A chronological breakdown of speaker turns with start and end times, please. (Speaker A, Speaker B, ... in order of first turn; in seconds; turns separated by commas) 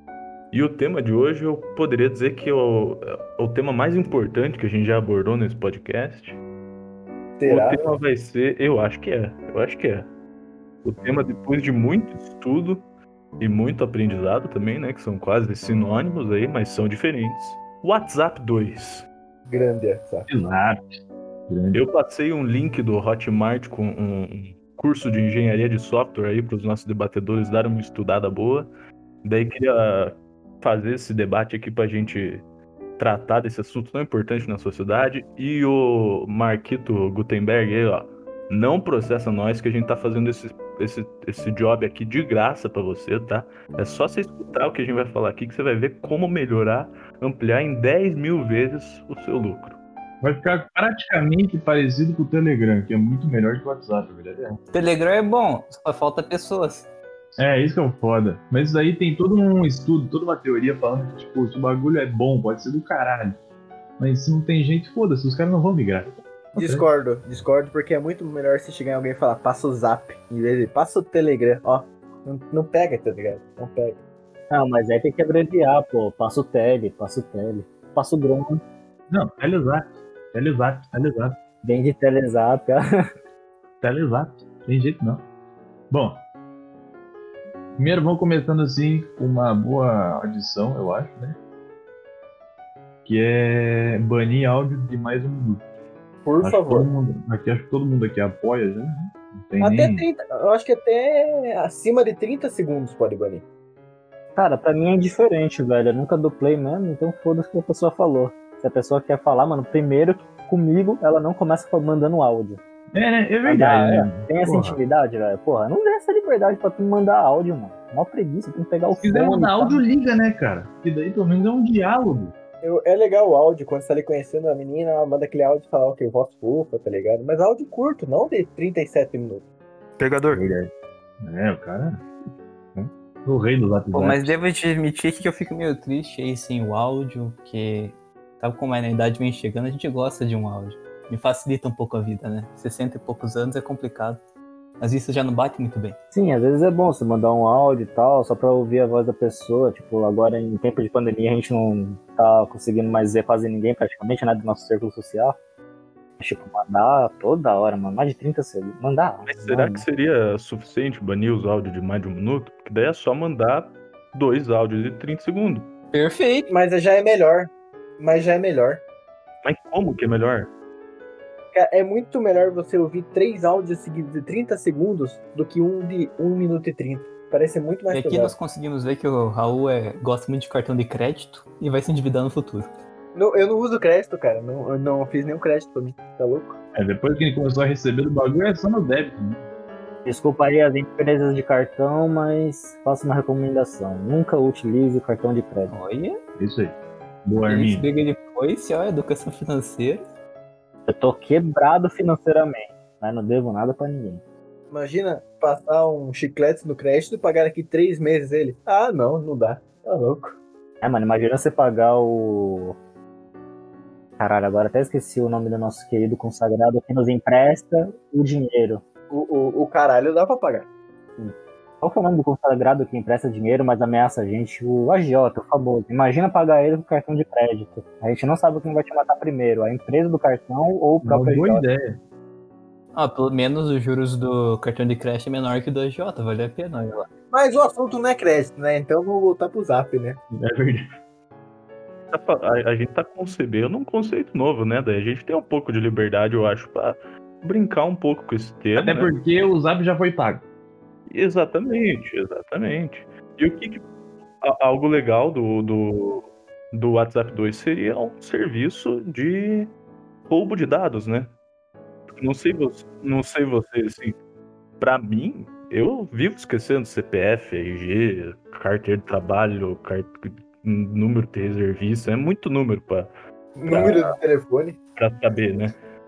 Speaker A: 0.5-6.4, Speaker B: 7.4-8.0, Speaker A: 7.5-10.1, Speaker A: 10.8-12.8, Speaker A: 13.4-19.1, Speaker B: 19.5-20.3, Speaker C: 20.3-21.8, Speaker A: 21.7-28.7, Speaker A: 29.2-32.4, Speaker A: 33.0-49.8, Speaker C: 50.2-54.6, Speaker D: 54.7-56.9, Speaker C: 57.4-63.4, Speaker C: 64.0-66.8, Speaker B: 66.6-74.0, Speaker E: 74.5-78.6, Speaker C: 79.1-81.4, Speaker E: 81.6-83.0, Speaker C: 83.8-85.2, Speaker C: 85.9-86.2, Speaker C: 87.8-91.4, Speaker C: 93.1-95.6, Speaker B: 96.2-96.9, Speaker C: 96.4-100.1, Speaker B: 99.6-103.4, Speaker E: 104.4-112.6, Speaker C: 112.9-114.8, Speaker E: 113.4-119.8, Speaker C: 119.0-122.3, Speaker B: 122.6-129.4, Speaker D: 130.0-130.4, Speaker C: 130.3-132.1, Speaker C: 132.8-134.4, Speaker D: 133.9-144.2, Speaker D: 144.8-146.0, Speaker E: 146.1-155.4, Speaker E: 156.2-159.9, Speaker A: 159.3-165.7, Speaker D: 165.9-166.5, Speaker B: 166.5-168.8, Speaker A: 169.4-170.5, Speaker B: 171.5-178.3, Speaker D: 177.9-182.7, Speaker B: 183.1-186.6, Speaker C: 186.7-189.5, Speaker E: 190.1-195.7, Speaker D: 195.7-196.2, Speaker C: 196.4-197.9, Speaker D: 197.5-200.1, Speaker E: 200.9-204.2, Speaker B: 204.7-210.4, Speaker E: 210.8-212.8, Speaker E: 214.2-218.8, Speaker B: 219.1-220.7, Speaker E: 221.2-231.7, Speaker C: 231.0-232.0, Speaker D: 232.9-237.1, Speaker B: 237.3-240.2, Speaker C: 240.3-240.9, Speaker A: 242.1-249.1, Speaker C: 248.8-250.4, Speaker A: 251.1-253.8, Speaker A: 254.4-259.7, Speaker A: 260.3-261.3, Speaker A: 262.2-264.2, Speaker A: 264.8-273.1, Speaker B: 273.6-274.8, Speaker A: 273.7-274.2, Speaker A: 275.0-275.8